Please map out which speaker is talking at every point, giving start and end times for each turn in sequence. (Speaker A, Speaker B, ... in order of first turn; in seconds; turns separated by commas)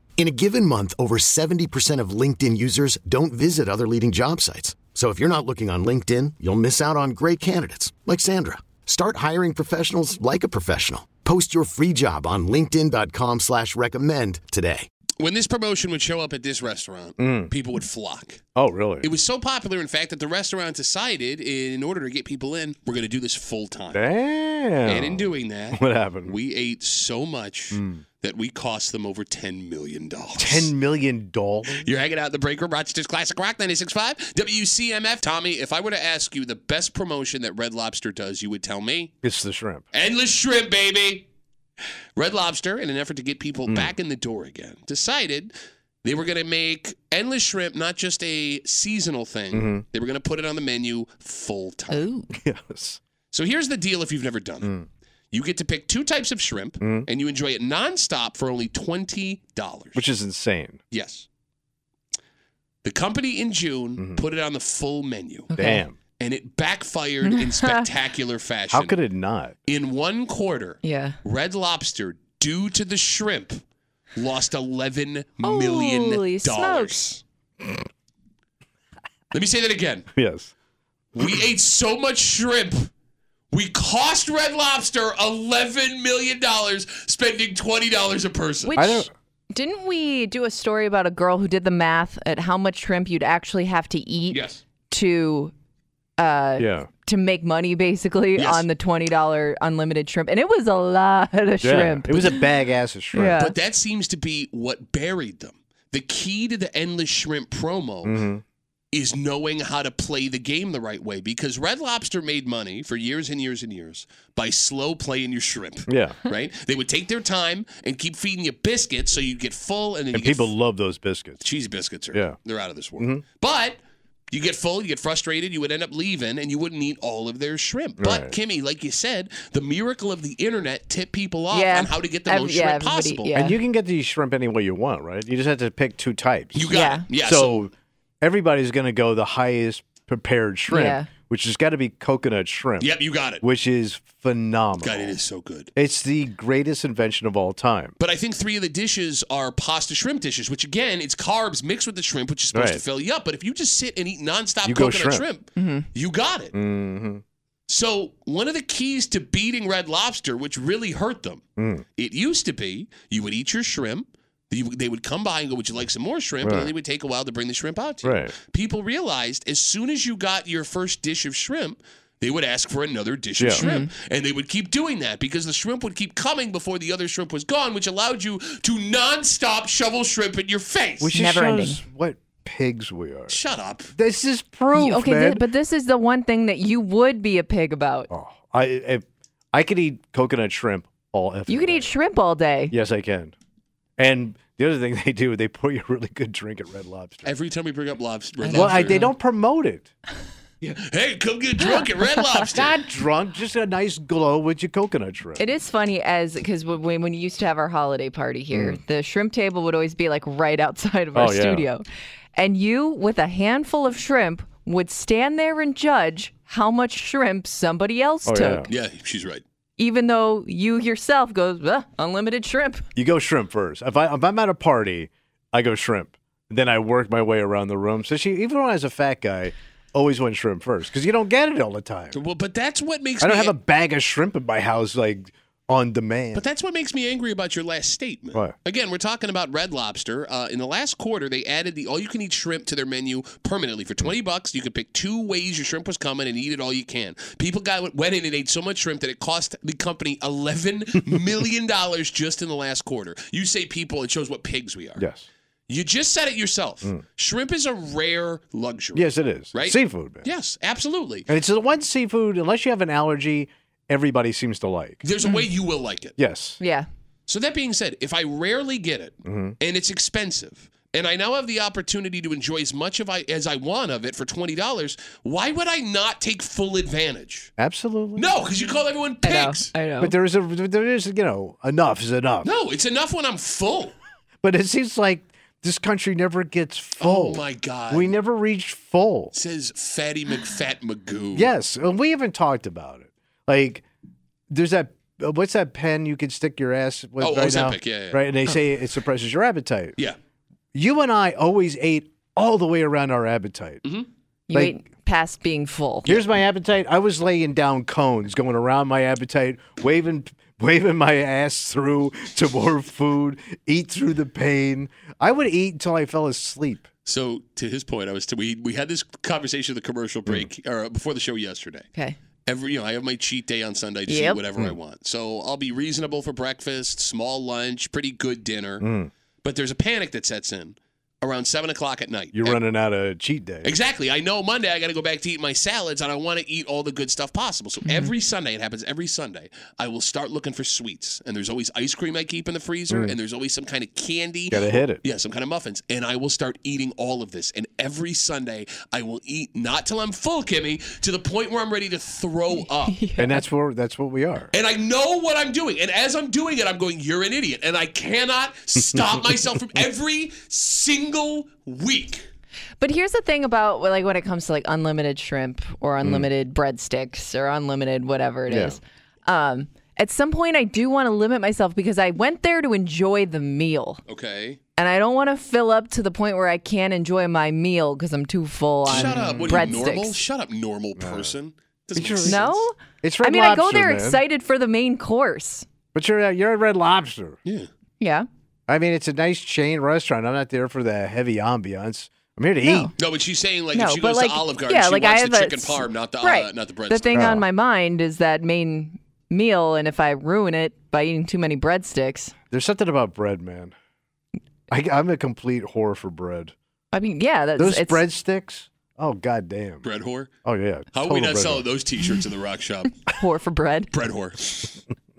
Speaker A: 0.2-14.9, Speaker B: 15.2-18.4, Speaker C: 17.2-17.5, Speaker C: 18.5-19.1, Speaker B: 19.0-24.0, Speaker C: 23.9-26.4, Speaker B: 24.8-30.7, Speaker C: 27.7-28.0, Speaker C: 30.4-31.9, Speaker B: 31.7-39.1, Speaker C: 39.2-39.8, Speaker B: 39.9-41.2, Speaker B: 42.1-52.1, Speaker C: 43.7-43.9, Speaker C: 49.5-49.8, Speaker D: 51.9-52.3, Speaker C: 52.3-53.0, Speaker B: 53.3-54.7, Speaker C: 54.6-54.9, Speaker B: 55.3-60.1, Speaker C: 56.8-57.1, Speaker C: 59.9-60.8, Speaker B: 60.9-61.2, Speaker B: 62.8-65.5, Speaker C: 64.0-64.2, Speaker D: 65.5-65.8, Speaker C: 65.5-66.0, Speaker B: 66.2-69.0, Speaker D: 67.2-67.9, Speaker C: 68.7-69.5, Speaker B: 69.6-73.6, Speaker D: 70.8-71.2, Speaker B: 74.2-77.2, Speaker D: 75.4-77.0, Speaker B: 79.3-80.1, Speaker C: 80.1-80.5, Speaker B: 81.1-82.9, Speaker B: 83.5-89.1, Speaker D: 88.7-95.5, Speaker C: 88.7-89.1, Speaker B: 94.3-94.6, Speaker D: 96.2-102.3, Speaker C: 96.6-96.9, Speaker B: 98.4-98.7, Speaker C: 101.6-103.4, Speaker D: 103.1-103.5, Speaker B: 103.4-108.2, Speaker C: 108.0-108.4, Speaker B: 108.9-120.5, Speaker C: 115.9-116.2, Speaker C: 120.1-121.4, Speaker B: 121.4-123.8, Speaker C: 123.0-123.2, Speaker B: 124.3-133.4, Speaker C: 128.0-128.3, Speaker D: 131.5-133.6, Speaker C: 133.3-145.2, Speaker B: 136.5-137.6, Speaker D: 136.7-137.1, Speaker D: 140.7-141.1, Speaker B: 142.8-143.4, Speaker B: 144.8-145.7, Speaker C: 145.8-147.9, Speaker B: 148.0-156.5, Speaker C: 152.5-152.8, Speaker C: 154.6-155.2, Speaker D: 155.6-155.8, Speaker C: 156.5-157.2, Speaker B: 157.7-161.4, Speaker C: 161.6-161.8, Speaker B: 162.0-181.1, Speaker C: 166.4-166.7, Speaker C: 168.0-168.3, Speaker C: 173.4-173.6, Speaker D: 173.6-173.9, Speaker C: 181.0-183.4, Speaker D: 181.1-181.8, Speaker B: 183.3-183.9, Speaker C: 183.9-185.4, Speaker D: 184.7-188.1, Speaker C: 188.1-191.9, Speaker D: 191.5-192.7, Speaker C: 192.7-193.3, Speaker C: 194.0-197.3, Speaker B: 197.2-199.1, Speaker D: 198.4-199.1, Speaker C: 198.5-199.9, Speaker B: 200.6-202.8, Speaker D: 201.6-201.8, Speaker C: 202.4-205.4, Speaker D: 205.4-218.7, Speaker C: 208.5-208.8, Speaker C: 211.1-211.7, Speaker C: 218.2-218.7, Speaker B: 218.7-219.4, Speaker D: 219.8-222.8, Speaker C: 222.9-232.2, Speaker B: 232.1-233.5, Speaker C: 233.2-236.4, Speaker B: 236.3-255.0, Speaker C: 255.0-255.3, Speaker B: 255.7-261.3, Speaker C: 258.9-260.3, Speaker C: 261.3-265.0, Speaker B: 265.0-266.2, Speaker C: 266.2-266.6, Speaker D: 266.6-266.9, Speaker B: 267.3-277.5, Speaker C: 269.2-269.6, Speaker C: 277.6-278.3, Speaker B: 278.1-279.7, Speaker D: 279.2-280.1, Speaker C: 280.0-282.5, Speaker B: 282.4-283.9, Speaker C: 284.4-289.3, Speaker B: 287.0-288.1, Speaker B: 289.3-291.5, Speaker C: 291.3-293.8, Speaker C: 294.5-299.9, Speaker B: 297.2-298.5, Speaker C: 300.7-303.8, Speaker D: 304.5-306.1, Speaker C: 304.5-304.8, Speaker C: 306.0-316.9, Speaker B: 317.1-321.9, Speaker B: 322.4-328.9, Speaker D: 324.1-324.4, Speaker C: 328.8-329.1, Speaker B: 329.4-332.6, Speaker C: 332.3-333.7, Speaker B: 333.6-353.0, Speaker D: 337.8-338.1, Speaker C: 342.9-343.1, Speaker C: 344.5-345.0, Speaker D: 352.8-353.4, Speaker C: 353.2-354.5, Speaker B: 354.5-362.2, Speaker D: 362.8-374.0, Speaker C: 366.0-366.3, Speaker C: 368.5-368.8, Speaker B: 374.1-374.6, Speaker D: 374.8-380.2, Speaker B: 378.9-382.6, Speaker C: 378.9-379.7, Speaker C: 381.0-381.3, Speaker C: 381.9-384.2, Speaker D: 382.2-385.6, Speaker C: 385.9-387.4, Speaker D: 388.0-388.2, Speaker C: 388.7-392.9, Speaker D: 392.6-392.9, Speaker B: 393.0-397.4, Speaker D: 393.7-402.3, Speaker C: 397.1-397.4, Speaker C: 402.5-403.7, Speaker C: 404.7-406.5, Speaker D: 406.9-408.0, Speaker C: 407.6-409.9, Speaker B: 409.8-410.3, Speaker C: 410.4-411.7, Speaker B: 410.9-413.1, Speaker D: 413.1-413.9, Speaker B: 413.9-414.8